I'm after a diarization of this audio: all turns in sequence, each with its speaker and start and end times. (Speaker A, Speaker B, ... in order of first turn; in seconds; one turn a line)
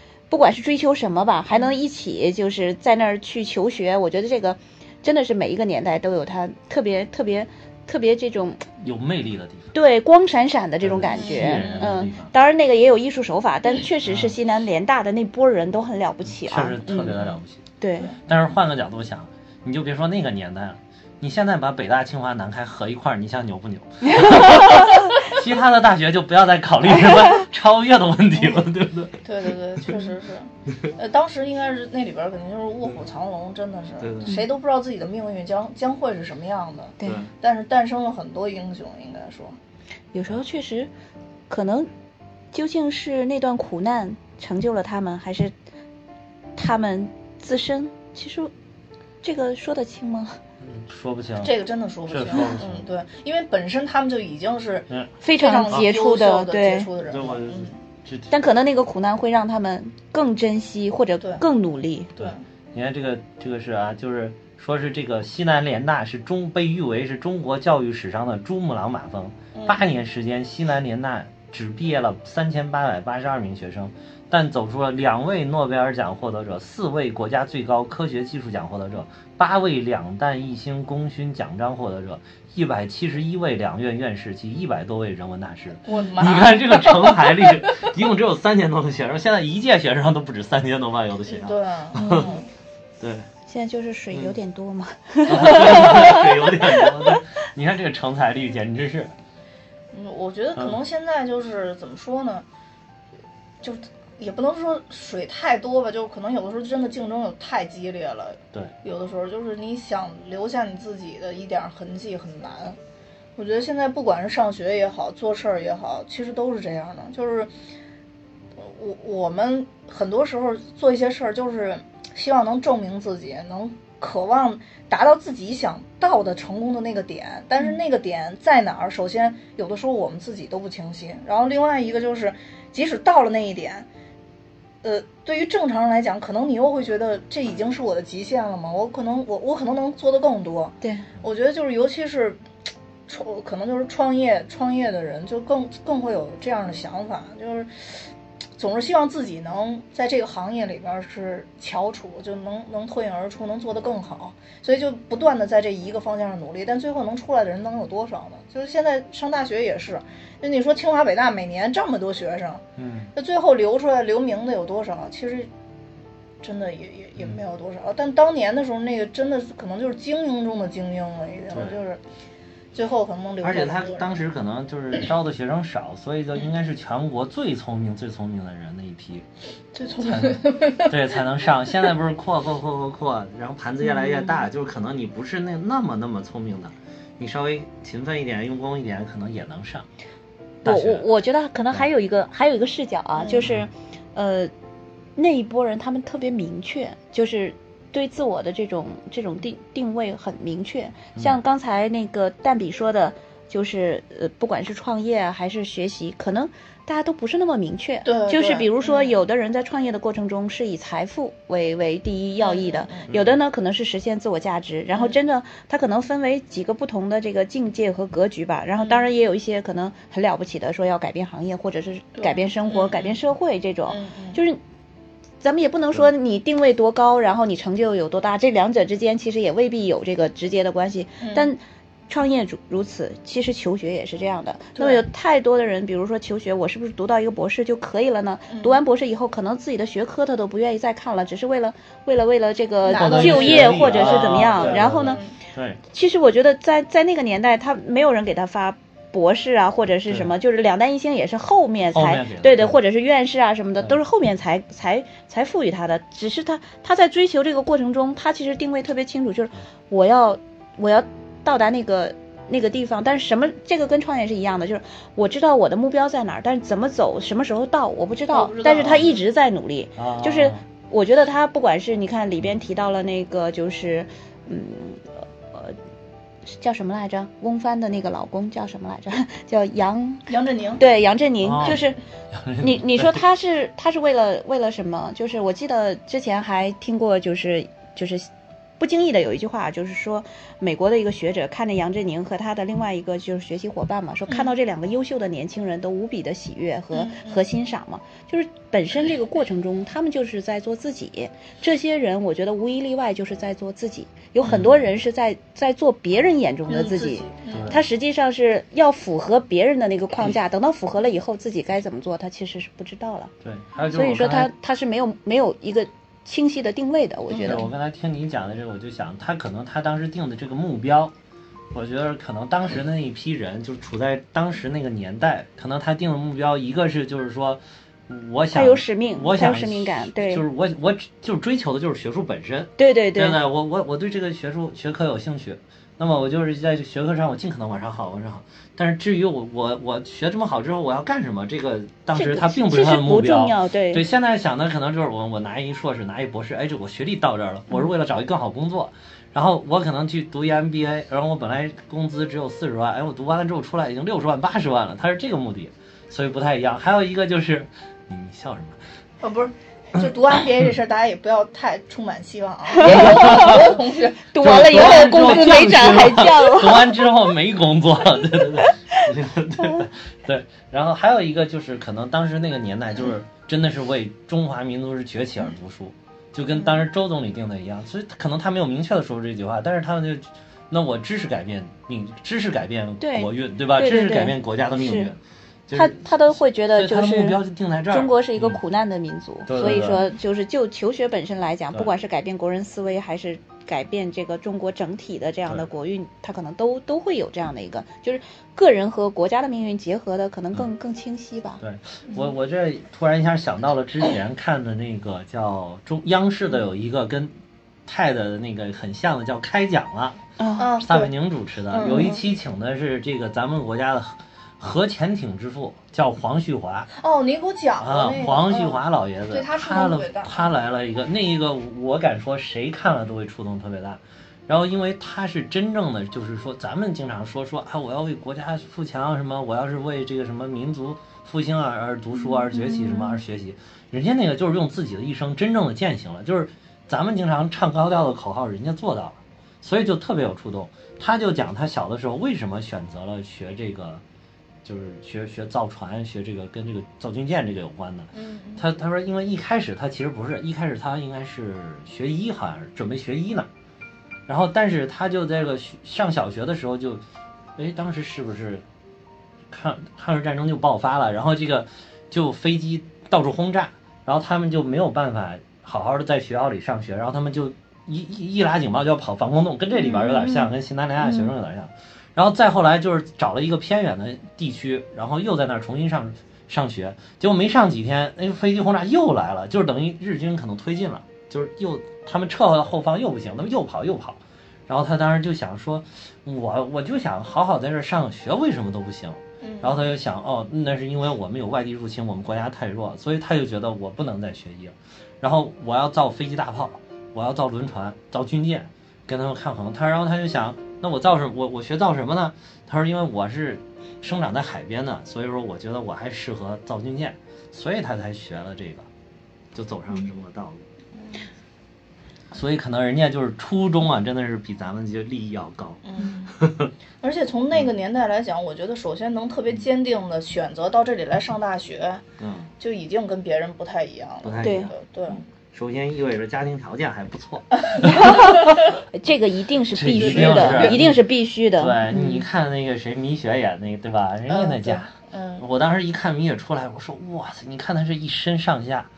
Speaker A: 0.3-8.7
Speaker B: 8.8-9.7
Speaker A: 9.7-17.2
Speaker B: 10.8-12.3
Speaker C: 11.1-11.9
Speaker B: 14.1-14.3
Speaker B: 16.3-17.6
Speaker A: 17.8-18.1
Speaker B: 18.3-29.2
Speaker A: 24.1-25.2
Speaker A: 27.1-27.4
Speaker C: 29.2-39.6
Speaker B: 34.0-34.4
Speaker B: 37.0-37.3
Speaker A: 40.1-40.9
Speaker A: 41.5-41.9
Speaker A: 42.5-45.5
Speaker A: 46.6-48.5
Speaker A: 49.2-50.4
Speaker B: 50.6-51.5
Speaker C: 51.4-57.8
Speaker B: 52.1-52.9
Speaker A: 55.2-56.9
Speaker B: 57.1-58.3
Speaker A: 58.3-62.1
Speaker B: 62.2-92.4
Speaker C: 69.5-69.8
Speaker C: 85.9-87.9
Speaker C: 91.3-92.5
Speaker A: 92.0-92.3
Speaker B: 93.0-93.3
Speaker A: 93.5-97.1
Speaker B: 95.3-99.1
Speaker C: 99.9-102.5
Speaker C: 103.6-112.8
Speaker C: 113.4-117.5
Speaker C: 118.6-133.9
Speaker C: 134.8-142.4
Speaker A: 140.8-141.1
Speaker C: 143.1-148.1
Speaker C: 148.6-165.5
Speaker B: 162.8-163.1
Speaker C: 166.4-172.0
Speaker B: 171.5-171.8
Speaker C: 172.7-174.2
Speaker B: 173.4-179.3
Speaker C: 179.7-181.0
Speaker B: 180.0-189.9
Speaker C: 183.9-184.4
Speaker B: 190.6-191.1
Speaker A: 190.6-194.5
Speaker C: 193.2-193.5
Speaker B: 193.4-193.7
Speaker A: 195.2-224.6
Speaker C: 208.1-209.1
Speaker C: 212.4-213.1
Speaker B: 213.1-213.3
Speaker C: 218.8-219.1
Speaker C: 222.2-223.2
Speaker C: 223.9-224.4
Speaker A: 225.4-245.2
Speaker C: 231.2-231.5
Speaker C: 234.8-235.0
Speaker C: 238.5-238.8
Speaker C: 242.8-245.3
Speaker B: 242.9-245.8
Speaker A: 245.9-275.8
Speaker B: 251.9-252.8
Speaker C: 268.3-269.2
Speaker B: 270.0-270.6
Speaker A: 276.5-282.0
Speaker C: 280.3-280.8
Speaker B: 281.4-283.2
Speaker A: 282.6-288.3
Speaker A: 288.8-313.3
Speaker C: 296.9-297.4
Speaker B: 304.4-304.9
Speaker C: 306.7-307.7
Speaker B: 307.5-307.9
Speaker B: 313.4-314.5
Speaker A: 313.9-317.7
Speaker C: 317.3-317.6
Speaker B: 317.4-321.1
Speaker B: 321.7-358.8
Speaker A: 328.5-330.4
Speaker A: 332.8-333.4
Speaker A: 342.1-344.1
Speaker C: 359.2-364.2
Speaker A: 362.7-363.8
Speaker B: 362.8-363.8
Speaker A: 364.3-367.0
Speaker B: 364.4-386.0
Speaker A: 368.6-369.1
Speaker A: 383.0-385.1
Speaker A: 385.7-387.4
Speaker B: 386.7-388.6
Speaker A: 387.9-401.6
Speaker B: 389.5-390.0
Speaker B: 401.6-407.3
Speaker B: 407.9-410.2
Speaker A: 410.4-410.7
Speaker C: 410.6-411.1
Speaker B: 410.8-416.9
Speaker C: 411.7-412.2
Speaker A: 411.9-412.1
Speaker C: 416.9-420.5
Speaker B: 417.8-444.0
Speaker A: 432.2-433.2
Speaker B: 444.6-453.5
Speaker C: 448.1-448.6
Speaker B: 454.3-457.0
Speaker B: 457.6-458.6
Speaker B: 459.5-508.9
Speaker A: 469.8-471.3
Speaker C: 489.4-489.9
Speaker B: 509.5-510.6
Speaker C: 511.0-511.2
Speaker B: 512.3-515.8
Speaker C: 515.8-516.4
Speaker B: 516.3-516.7
Speaker C: 517.0-522.0
Speaker B: 522.2-522.5
Speaker C: 522.6-525.2
Speaker B: 524.2-524.7
Speaker A: 524.4-524.7
Speaker B: 525.5-528.5
Speaker C: 527.6-528.5
Speaker A: 527.8-532.2
Speaker B: 529.7-531.0
Speaker C: 530.0-530.8
Speaker B: 531.6-538.9
Speaker C: 534.3-535.5